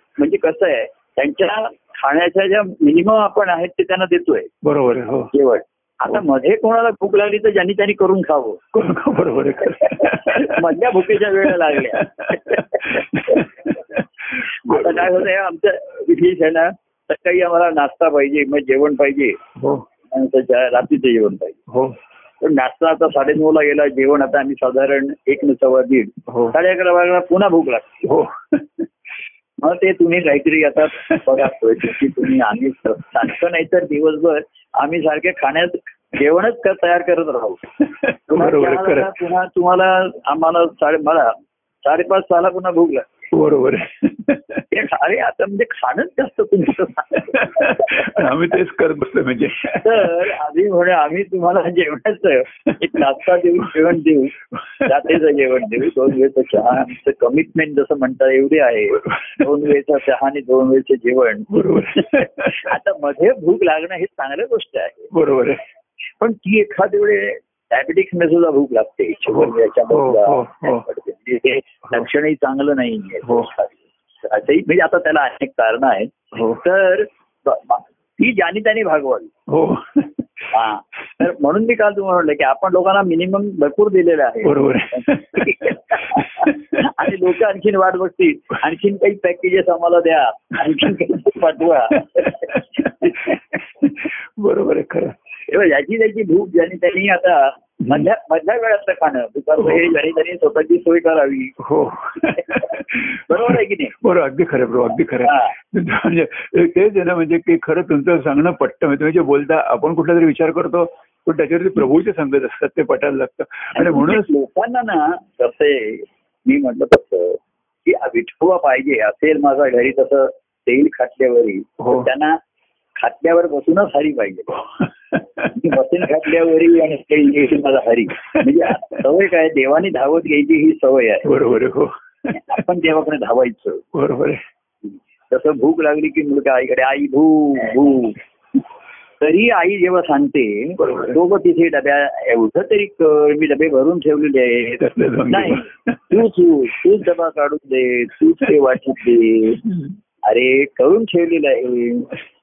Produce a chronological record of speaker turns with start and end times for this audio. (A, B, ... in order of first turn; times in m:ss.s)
0:00.2-0:04.5 A
0:04.6-0:05.3 B
0:05.3-0:08.6 A
0:08.7-0:15.2 B
0:09.7-0:13.5 A
0:14.3-0:19.4 A
0:19.6-0:19.8 B
0:20.1-0:21.6 A
0:21.7-0:22.0 B
0:22.4-0:28.0 A
0:26.3-0:26.5 B
0:28.0-0:28.9 B
0:29.6-0:37.6 A
0:30.9-0:32.2 B
0:37.8-0:39.1 B
0:38.3-0:43.1 A
0:43.3-0:44.6 B
0:44.7-0:48.2 A
0:47.1-0:50.3 B
0:49.8-1:05.1 A
0:52.7-0:53.0 B
0:54.5-0:55.1 B
0:59.1-0:59.4 B
1:01.5-1:02.7 B
1:05.1-1:05.6 B
1:06.2-1:19.3 A
1:09.3-1:10.8 B
1:16.3-1:16.6 B
1:19.5-1:20.5 B
1:20.5-1:33.4 A
1:24.4-1:27.1 B
1:32.2-1:35.2 B
1:35.5-1:41.5 A
1:39.6-1:39.9 B
1:41.6-1:54.3 B
1:42.3-1:44.0 A
1:45.2-1:45.5 A
1:53.7-2:02.4 A
2:01.8-2:02.1 B
2:03.0-2:04.6 A
2:04.6-2:05.5 B
2:05.5-2:11.3 A
2:08.3-2:08.7 B
2:11.2-2:12.4 B
2:12.3-2:13.8 A
2:13.9-2:14.4 B
2:15.3-2:18.2 A
2:19.2-2:29.6 A
2:20.8-2:21.2 B
2:24.8-2:26.0 B
2:30.2-2:32.1 A